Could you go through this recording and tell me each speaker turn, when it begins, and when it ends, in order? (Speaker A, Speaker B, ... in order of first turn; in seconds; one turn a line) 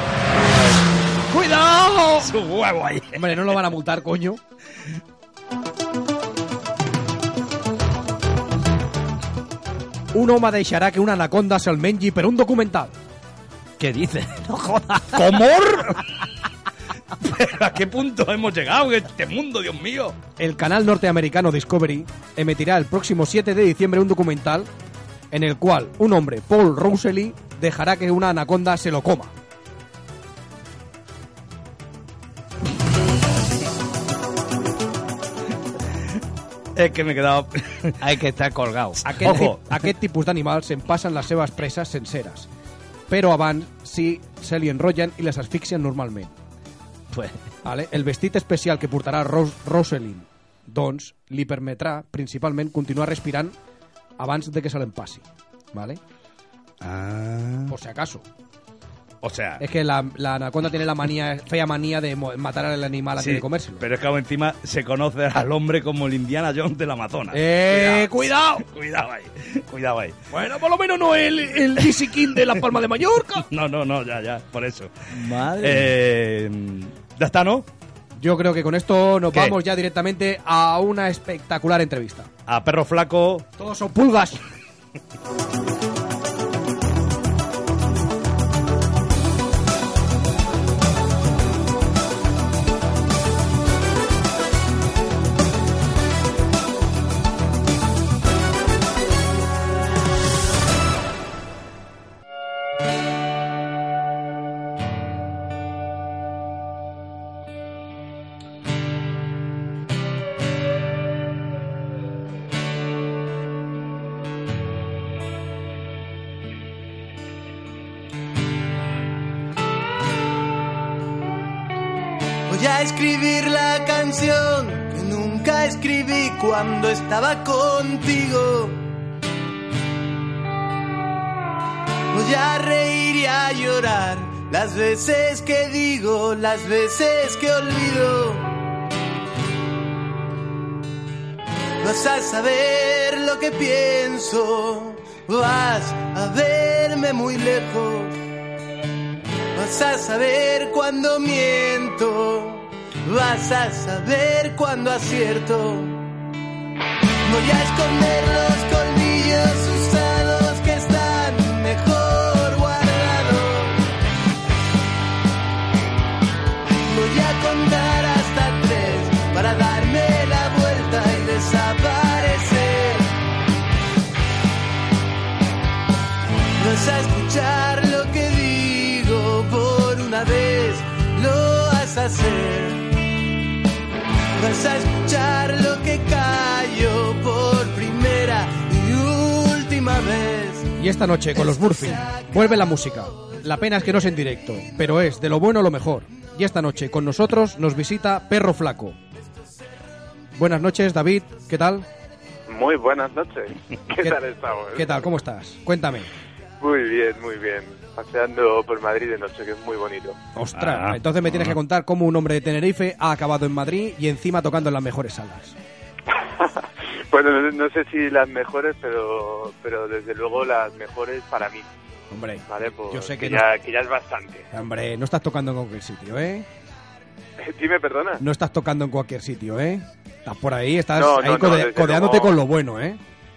Speaker A: 1.3-2.3
Speaker B: 2.2-3.5
Speaker A: 3.1-4.4
Speaker A: 10.1-12.9
Speaker C: 13.8-15.2
Speaker B: 15.1-16.0
Speaker B: 17.2-20.2
Speaker A: 20.4-24.7
Speaker A: 25.3-29.3
Speaker B: 36.8-38.0
Speaker C: 38.0-39.0
Speaker A: 39.0-42.5
Speaker B: 39.0-39.7
Speaker A: 43.1-46.3
Speaker C: 47.1-47.4
Speaker A: 47.6-53.5
Speaker A: 54.2-56.0
Speaker B: 56.8-57.7
Speaker A: 57.7-58.2
Speaker B: 59.2-59.6
Speaker A: 59.6-63.9
Speaker B: 63.2-70.2
Speaker A: 67.3-68.6
Speaker A: 70.3-73.5
Speaker B: 73.5-74.9
Speaker C: 75.1-75.9
Speaker B: 75.6-77.7
Speaker A: 78.2-82.3
Speaker B: 79.3-79.6
Speaker B: 82.5-83.5
Speaker A: 83.6-84.4
Speaker D: 122.5-128.9
Speaker D: 132.1-138.5
Speaker D: 141.8-148.2
Speaker D: 149.5-156.1
Speaker D: 157.2-163.8
Speaker D: 166.9-173.1
Speaker D: 176.6-183.0
Speaker D: 184.4-190.7
Speaker A: 190.8-198.9
Speaker D: 191.8-192.3
Speaker A: 200.3-201.8
Speaker E: 202.5-205.1
Speaker A: 203.9-206.1
Speaker E: 206.6-210.2
Speaker A: 210.3-215.6
Speaker B: 210.5-211.6
Speaker E: 216.1-221.6
Speaker A: 222.1-223.5
Speaker E: 222.5-224.4
Speaker A: 224.5-226.4
Speaker E: 227.4-228.2
Speaker A: 228.2-233.0
Speaker E: 230.9-232.4